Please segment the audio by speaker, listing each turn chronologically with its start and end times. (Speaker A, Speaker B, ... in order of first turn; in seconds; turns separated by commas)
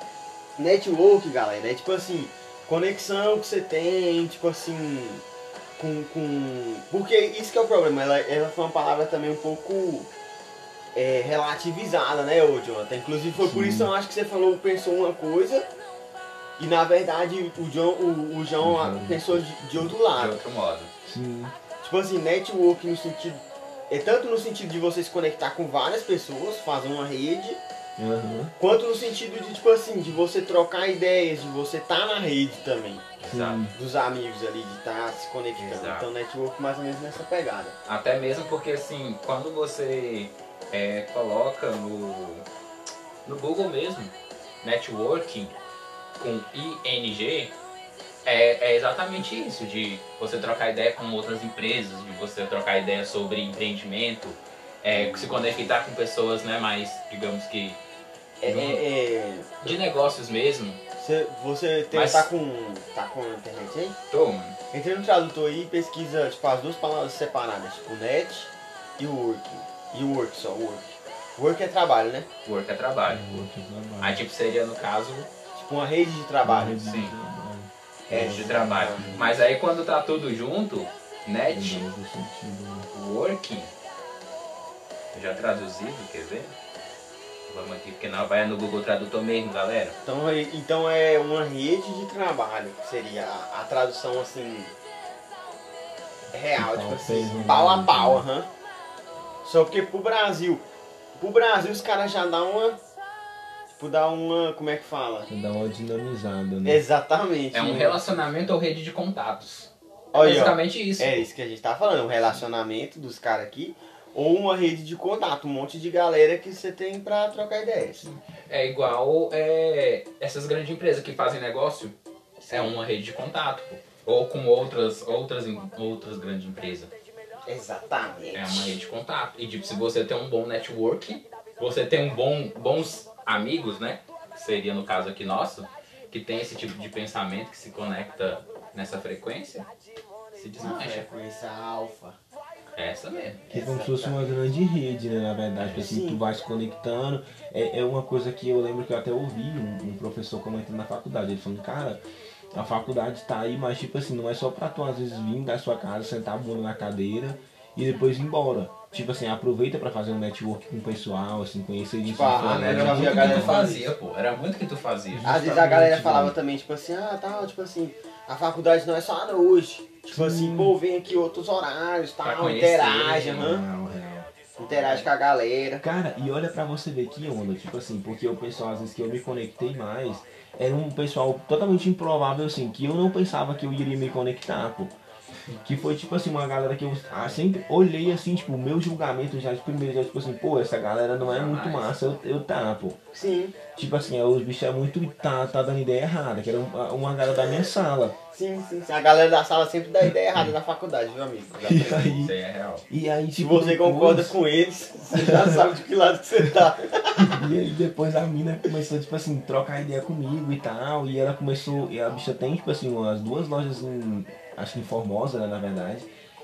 Speaker A: 0.6-5.2, Speaker A: 5.8-10.1, Speaker A: 10.9-15.7, Speaker B: 13.4-13.9, Speaker A: 16.6-20.4, Speaker B: 18.6-19.9, Speaker C: 20.1-20.9, Speaker B: 21.0-21.5, Speaker A: 21.8-27.6, Speaker B: 28.0-28.5, Speaker A: 28.6-33.2, Speaker C: 33.2-33.6, Speaker B: 33.3-33.7, Speaker A: 33.7-37.8, Speaker C: 35.6-36.1, Speaker C: 37.9-42.5, Speaker C: 43.2-45.5, Speaker C: 46.2-47.5, Speaker C: 48.2-57.8, Speaker A: 58.4-59.8, Speaker C: 58.4-58.8, Speaker C: 59.6-60.8, Speaker A: 61.0-63.9, Speaker C: 61.9-62.3, Speaker C: 64.1-64.5, Speaker A: 64.7-72.3, Speaker C: 72.4-73.5, Speaker B: 73.1-74.2, Speaker C: 74.0-75.3, Speaker A: 75.5-76.8, Speaker B: 76.4-79.3, Speaker C: 76.8-77.1, Speaker C: 78.1-81.8, Speaker A: 78.1-79.2, Speaker B: 81.5-82.9, Speaker C: 82.9-83.7, Speaker C: 85.1-86.5, Speaker C: 87.5-90.0, Speaker A: 90.0-94.7, Speaker A: 96.3-98.5, Speaker B: 96.5-98.2, Speaker A: 99.4-100.6, Speaker A: 101.2-102.8, Speaker A: 103.8-105.3, Speaker B: 105.3-106.8, Speaker A: 106.6-108.0, Speaker C: 107.5-111.2, Speaker A: 110.1-118.0, Speaker C: 118.1-121.9, Speaker A: 122.4-122.8, Speaker C: 122.5-126.9, Speaker A: 127.5-128.7, Speaker C: 128.3-139.7, Speaker C: 140.3-141.1, Speaker A: 140.6-142.2, Speaker C: 142.7-143.4, Speaker A: 143.5-144.3, Speaker B: 143.5-152.0, Speaker A: 145.8-146.2, Speaker B: 152.5-163.9, Speaker A: 162.0-163.8, Speaker C: 162.3-165.3, Speaker B: 165.1-166.3, Speaker A: 165.2-173.6, Speaker B: 170.1-170.7, Speaker C: 172.2-173.4, Speaker B: 173.3-174.3, Speaker A: 174.6-175.8, Speaker C: 174.7-175.0, Speaker B: 175.8-184.9, Speaker B: 185.6-193.0, Speaker C: 191.2-191.9, Speaker A: 193.1-193.6, Speaker B: 193.7-198.1, Speaker A: 197.4-197.7, Speaker A: 198.3-202.1, Speaker B: 201.6-202.3, Speaker C: 202.2-202.8, Speaker B: 202.9-204.3, Speaker A: 203.3-207.4, Speaker B: 205.1-205.7, Speaker B: 207.2-216.1